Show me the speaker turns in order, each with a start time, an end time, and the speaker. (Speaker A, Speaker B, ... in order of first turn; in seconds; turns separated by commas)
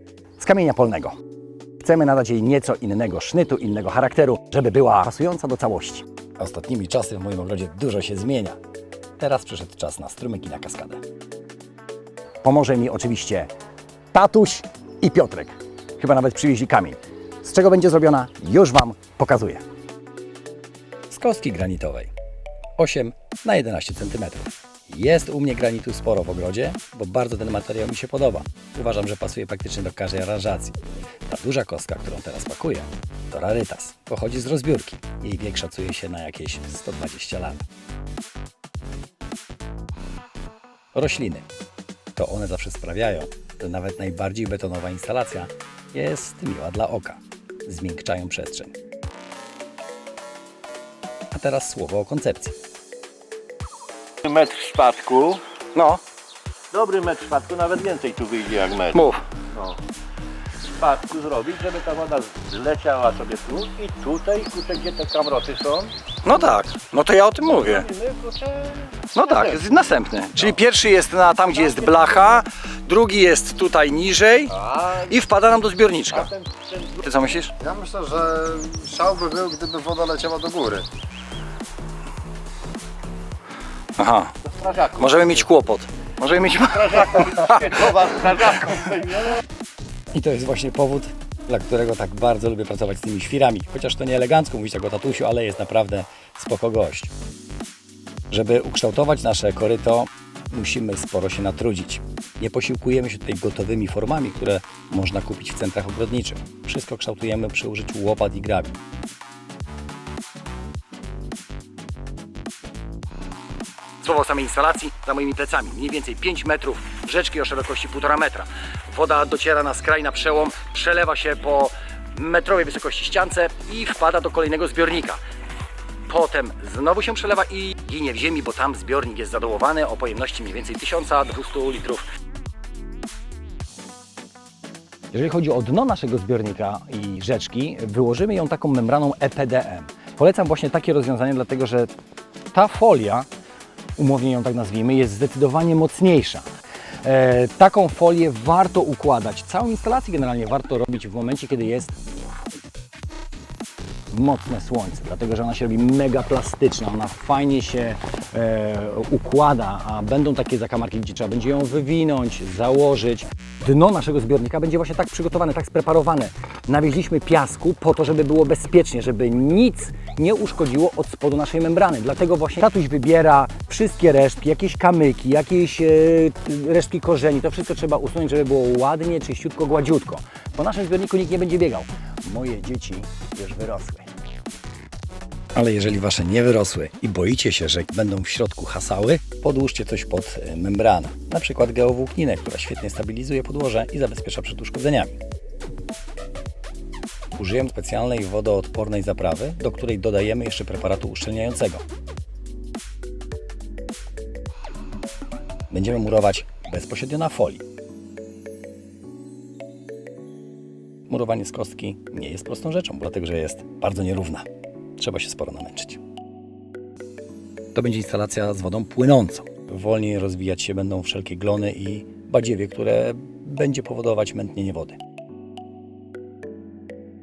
Speaker A: 0.4-1.2, Speaker A: 1.8-8.6, Speaker A: 9.2-11.0, Speaker A: 12.4-13.5, Speaker A: 14.1-19.6, Speaker A: 21.1-22.1, Speaker A: 22.8-37.7, Speaker A: 40.9-41.5, Speaker A: 42.1-48.8, Speaker A: 51.3-52.6, Speaker B: 54.2-55.4, Speaker A: 55.7-56.0, Speaker B: 56.7-59.0, Speaker A: 58.9-59.2, Speaker B: 60.8-65.9, Speaker A: 66.2-67.9, Speaker B: 67.5-69.5, Speaker A: 69.1-77.6, Speaker B: 74.7-75.0, Speaker B: 76.4-76.9, Speaker C: 77.6-80.9, Speaker A: 84.0-88.9, Speaker B: 84.6-85.0, Speaker B: 87.0-89.3, Speaker A: 90.1-97.1, Speaker A: 98.3-108.8, Speaker A: 114.0-125.2, Speaker A: 126.1-132.1, Speaker A: 135.1-141.9, Speaker A: 142.5-143.3, Speaker A: 144.0-146.4, Speaker A: 147.0-152.0, Speaker A: 154.1-184.1, Speaker A: 185.6-195.2, Speaker A: 197.4-201.8, Speaker A: 205.7-207.6, Speaker A: 211.1-214.5, Speaker A: 215.0-216.0, Speaker A: 217.7-225.0